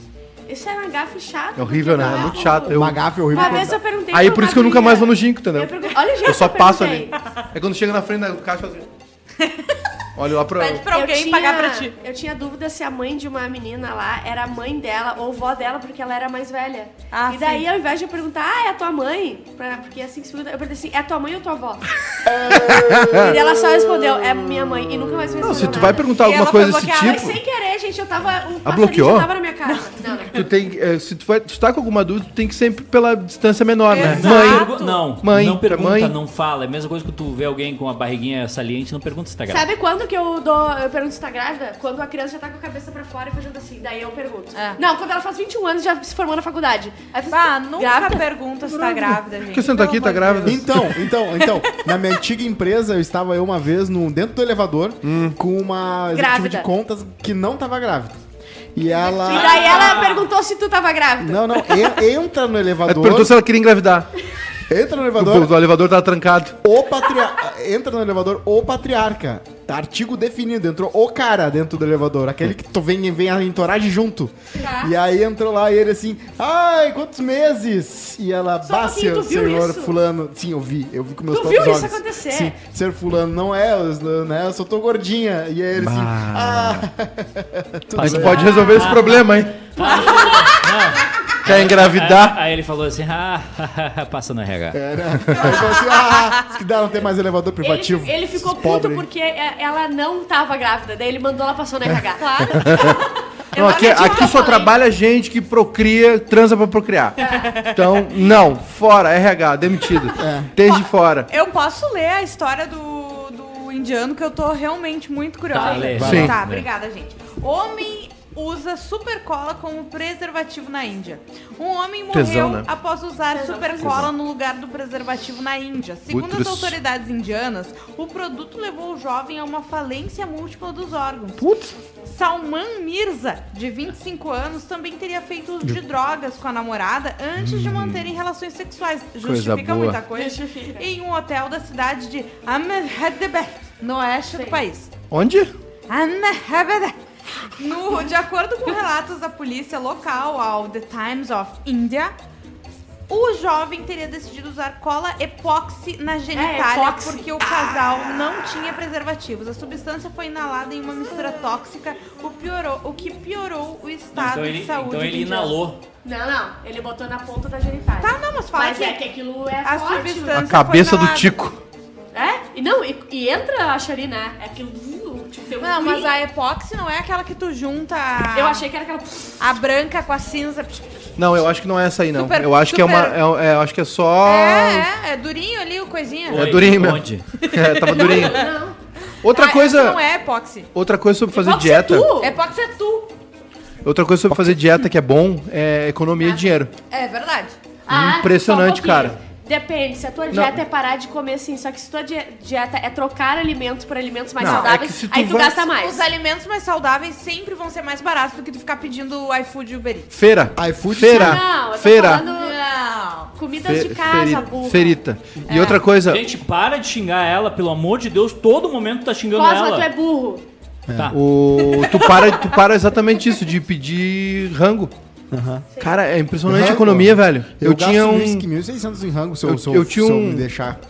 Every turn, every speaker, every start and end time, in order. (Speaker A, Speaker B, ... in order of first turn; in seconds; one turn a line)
Speaker A: 0.5-7.1
Speaker B: 1.6-8.9
Speaker C: 2.0-3.8
Speaker D: 9.4-9.8
Speaker B: 10.2-10.9
Speaker D: 10.5-11.9
Speaker A: 10.9-30.5
Speaker D: 17.1-17.7
Speaker C: 22.2-26.0
Speaker B: 22.5-23.4
Speaker B: 25.4-27.4
Speaker D: 26.1-27.2
Speaker B: 28.6-29.3
Speaker B: 30.2-36.1
Speaker D: 33.9-35.1
Speaker E: 34.0-39.7
Speaker A: 39.5-48.3
Speaker D: 44.5-44.8
Speaker D: 47.3-51.6
Speaker B: 48.6-50.9
Speaker C: 50.4-58.2
Speaker B: 55.0-55.4
Speaker A: 56.1-56.7
Speaker C: 58.8-60.0
Speaker D: 59.0-60.3
Speaker A: 59.1-62.0
Speaker C: 61.2-63.3
Speaker B: 62.9-64.1
Speaker C: 64.7-65.6
Speaker B: 65.2-66.6
Speaker C: 66.6-88.9
Speaker D: 74.6-74.9
Speaker A: 78.6-80.0
Speaker A: 81.3-82.5
Speaker B: 85.8-86.9
Speaker B: 88.0-89.7
Speaker E: 88.0-94.8
Speaker A: 88.6-89.0
Speaker A: 89.8-90.7
Speaker D: 89.8-90.7
Speaker B: 91.4-92.4
Speaker C: 94.7-99.1
Speaker D: 95.9-96.2
Speaker A: 97.6-104.7
Speaker D: 102.2-103.0
Speaker B: 102.6-103.0
Speaker B: 103.5-111.3
Speaker A: 107.2-107.6
Speaker D: 107.3-107.8
Speaker C: 110.2-110.5
Speaker D: 110.6-144.9
Speaker E: 115.5-116.7
Speaker A: 115.6-115.8
Speaker C: 115.9-116.3
Speaker B: 115.9-116.4
Speaker B: 122.1-122.7
Speaker A: 123.3-124.1
Speaker B: 123.8-124.1
Speaker B: 126.1-126.8
Speaker B: 131.4-131.7
Speaker B: 137.4-138.0
Speaker B: 139.2-140.0
Speaker A: 140.1-140.9
Speaker A: 144.3-144.6
Speaker B: 145.1-145.5
Speaker D: 145.9-147.0
Speaker D: 147.6-152.1
Speaker D: 153.1-165.6
Speaker A: 156.3-157.4
Speaker E: 164.1-165.8
Speaker A: 166.0-170.4
Speaker D: 168.0-169.0
Speaker D: 169.6-171.4
Speaker B: 170.3-171.6
Speaker A: 172.1-176.2
Speaker D: 175.6-178.7
Speaker A: 178.3-179.4
Speaker D: 179.4-180.9
Speaker B: 181.2-184.9
Speaker D: 182.1-183.2
Speaker D: 184.2-186.8
Speaker E: 186.3-187.3
Speaker B: 186.3-188.4
Speaker D: 187.3-188.5
Speaker A: 187.9-188.8
Speaker B: 189.2-190.0
Speaker D: 189.3-190.7
Speaker B: 190.7-192.1
Speaker A: 191.3-192.4
Speaker D: 192.2-193.1
Speaker B: 193.8-196.7
Speaker C: 194.3-194.6
Speaker A: 196.2-196.5
Speaker D: 196.9-197.6
Speaker A: 197.9-206.1
Speaker B: 197.9-199.2
Speaker B: 200.3-200.6
Speaker B: 204.4-205.7
Speaker D: 204.4-204.7
Speaker D: 205.7-210.1
Speaker B: 210.1-212.2
Speaker C: 210.6-211.4
Speaker A: 211.1-212.6
Speaker D: 212.2-213.3
Speaker A: 213.3-215.8
Speaker B: 213.7-216.2
Speaker E: 216.0-219.9
Speaker A: 219.3-220.4
Speaker C: 220.9-221.2
Speaker E: 220.9-221.2
Speaker B: 221.1-224.9
Speaker D: 221.7-222.5
Speaker C: 225.3-225.7
Speaker A: 225.7-226.0
Speaker B: 225.8-228.5
Speaker C: 226.4-230.8
Speaker B: 229.4-230.4